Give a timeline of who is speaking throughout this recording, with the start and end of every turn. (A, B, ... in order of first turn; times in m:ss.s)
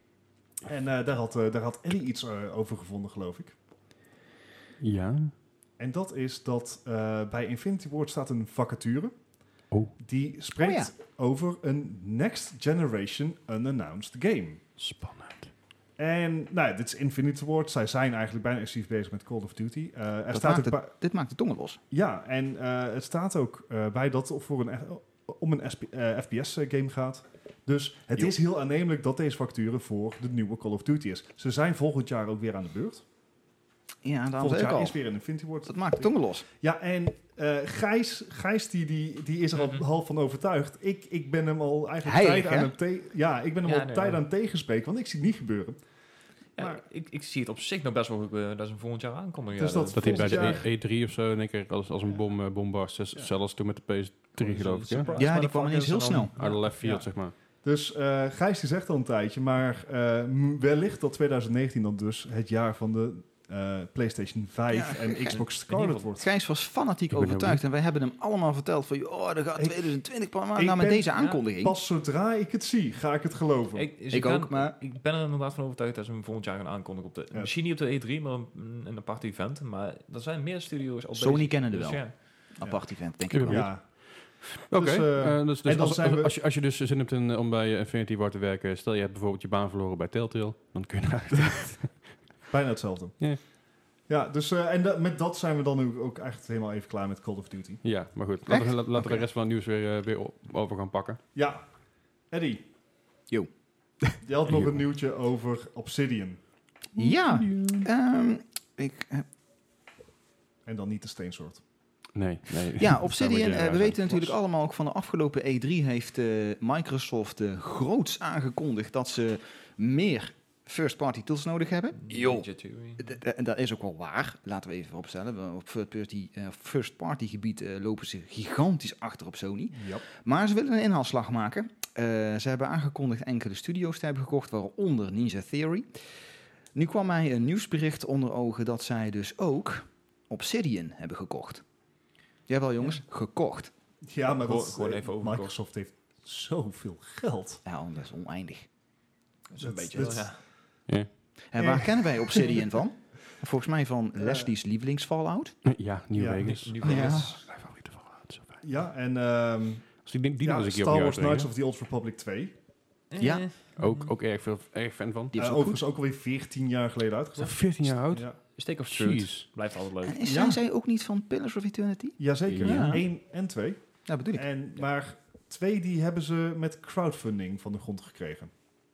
0:00.6-0:03.5 A
0:04.8-0:05.3 B
0:05.8-0:09.1 A
0:10.0-0:14.6 A
0:10.6-0:10.9 C
0:14.8-0:15.5 B
0:16.0-0:20.9 A
0:20.3-0:21.8 C
0:21.9-0:33.0 A
0:34.0-0:35.0 C
0:34.4-0:45.8 A
0:35.6-0:36.4 C
0:39.6-0:39.8 D
0:42.0-0:42.7 C
0:43.6-0:44.2 D
0:46.6-0:50.6 D
0:49.6-0:50.6 A
0:49.9-0:55.1 B
0:54.4-0:56.6 D
0:55.1-0:56.3 C
0:56.4-0:57.3 B
0:56.7-1:06.3 A
1:04.7-1:05.4 C
1:05.5-1:06.1 D
1:06.2-1:11.7 C
1:07.1-1:07.6 B
1:09.6-1:09.9 A
1:10.5-1:13.9 A
1:13.7-1:22.5 D
1:14.1-1:14.7 C
1:21.1-1:23.7 C
1:23.3-1:32.0 B
1:23.4-1:23.9 A
1:24.7-1:26.3 A
1:32.5-1:33.3 A
1:34.1-1:37.8 A
1:37.8-1:41.2 B
1:38.4-1:39.3 C
1:41.3-1:41.7 A
1:42.3-1:42.6 A
1:44.2-1:46.4 A
1:46.9-1:47.9 B
1:47.0-1:49.2 C
1:50.6-1:51.6 A
1:52.1-1:54.3 B
1:52.8-2:02.5 C
2:02.0-2:03.1 D
2:03.0-2:15.9 C
2:09.7-2:10.0 A
2:16.7-2:21.6 C
2:22.5-2:23.7 C
2:24.1-2:27.6 A
2:24.4-2:25.5 D
2:27.6-2:28.6 C
2:29.5-2:30.4 D
2:29.6-2:30.4 A
2:31.5-2:35.6 C
2:31.6-2:32.7 A
2:34.2-2:34.5 A
2:35.6-2:38.6 B
2:36.1-2:36.4 A
2:36.4-2:37.4 D
2:36.8-2:37.4 C
2:38.6-2:42.5 A
2:40.0-2:41.5 B
2:43.1-2:44.1 D
2:43.2-2:43.5 C
2:43.8-2:45.4 B
2:45.3-2:45.8 C
2:45.4-2:48.4 A
2:47.4-2:49.4 B
2:48.5-2:50.2 D
2:50.0-2:53.1 C
2:50.2-2:50.6 A
2:52.2-2:58.5 A
2:52.4-2:53.0 B
2:54.0-2:54.4 C